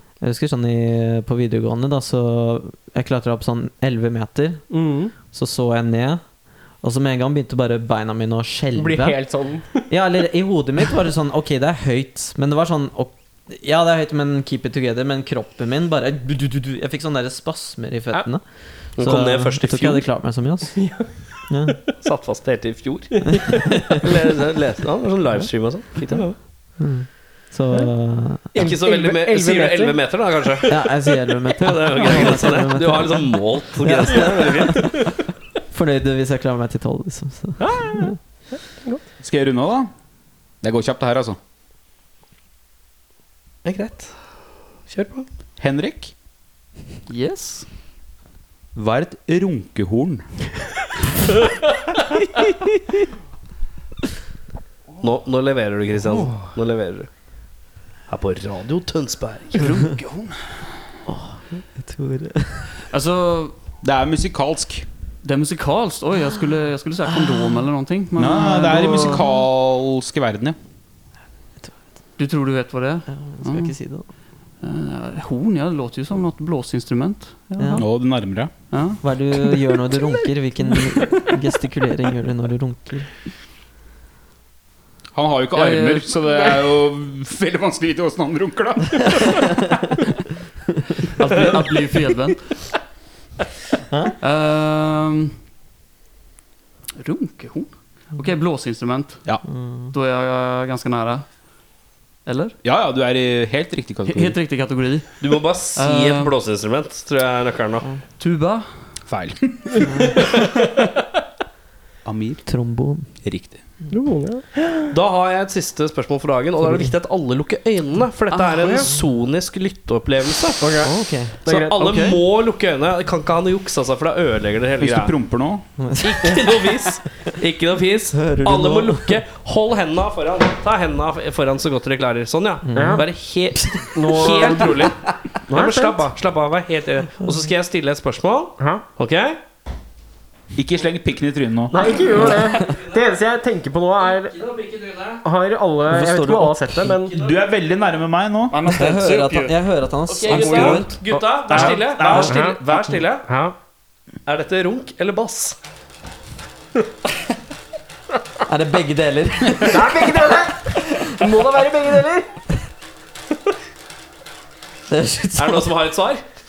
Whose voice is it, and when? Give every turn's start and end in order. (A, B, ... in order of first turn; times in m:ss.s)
0:00.2-0:04.7 A
0:04.7-0:05.1 B
0:05.3-0:06.2 A
0:06.8-0:09.2 A
0:08.8-0:09.9 B
0:09.9-0:18.4 A
0:19.0-0:20.1 C
0:19.0-0:21.0 A
0:20.8-0:21.1 B
0:21.5-0:21.9 A
0:22.0-0:23.3 C
0:23.3-0:23.6 B
0:23.3-0:24.0 A
0:24.0-0:26.4 C
0:26.8-0:28.5 A
0:28.5-0:30.0 B
0:28.6-0:30.8 C
0:30.7-0:35.0 A
0:31.6-0:35.0 C
0:33.8-0:34.9 B
0:35.7-0:38.2 A
0:37.6-0:39.0 B
0:39.2-0:39.9 D
0:40.6-0:41.4 D
0:43.6-0:44.1 C
0:44.9-0:45.3 C
0:45.6-0:46.1 D
0:47.1-0:47.7 E
0:48.8-0:50.3 D
0:55.0-0:57.1 C
0:58.1-0:59.6 C
0:59.5-1:00.7 E
1:01.1-1:02.8 A
1:02.8-1:03.6 E
1:03.8-1:04.9 D
1:05.2-1:09.2 E
1:07.2-1:07.6 A
1:08.2-1:10.6 D
1:12.2-1:13.8 E
1:13.1-1:14.1 A
1:14.6-1:17.9 E
1:17.6-1:17.8 A
1:17.8-1:18.5 D
1:18.7-1:19.0 E
1:19.0-1:23.1 A
1:20.0-1:21.3 B
1:25.1-1:29.4 D
1:25.5-1:26.2 E
1:31.2-1:32.4 E
1:33.9-1:34.2 A
1:34.2-1:35.4 E
1:37.0-1:39.4 E
1:39.4-1:39.9 A
1:39.9-1:41.3 E
1:42.3-1:42.6 E
1:42.6-1:44.4 D
1:44.1-1:45.2 E
1:45.2-1:47.9 C
1:45.8-1:46.3 E
1:48.2-1:48.7 E
1:49.1-1:49.9 D
1:49.8-1:50.3 A
1:52.0-1:52.4 D
1:52.5-1:53.1 A
1:53.2-1:53.6 D
1:53.9-1:54.9 B
1:54.9-2:00.6 C
1:56.6-1:56.9 A
1:58.3-1:58.9 E
2:00.6-2:02.2 B
2:00.8-2:01.4 A
2:01.5-2:05.2 C
2:04.8-2:05.7 D
2:05.8-2:06.9 A
2:06.0-2:15.0 C
2:08.2-2:09.2 A
2:12.6-2:13.8 A
2:12.8-2:13.1 B
2:13.9-2:14.9 B
2:15.5-2:19.4 C
2:15.5-2:16.0 B
2:18.6-2:18.8 B
2:20.6-2:22.2 D
2:21.7-2:24.4 B
2:22.5-2:23.1 C
2:24.0-2:25.2 C
2:25.2-2:27.2 B
2:25.9-2:27.0 A
2:27.1-2:27.4 C
2:27.2-2:28.6 D
2:28.5-2:29.6 E
2:28.7-2:31.0 A
2:30.1-2:33.3 C
2:30.2-2:31.0 E
2:31.1-2:32.6 B
2:31.5-2:32.5 D
2:33.3-2:33.6 B
2:34.3-2:35.6 C
2:38.5-2:41.0 A
2:39.7-2:42.3 B
2:44.9-2:45.7 A
2:45.4-2:46.2 C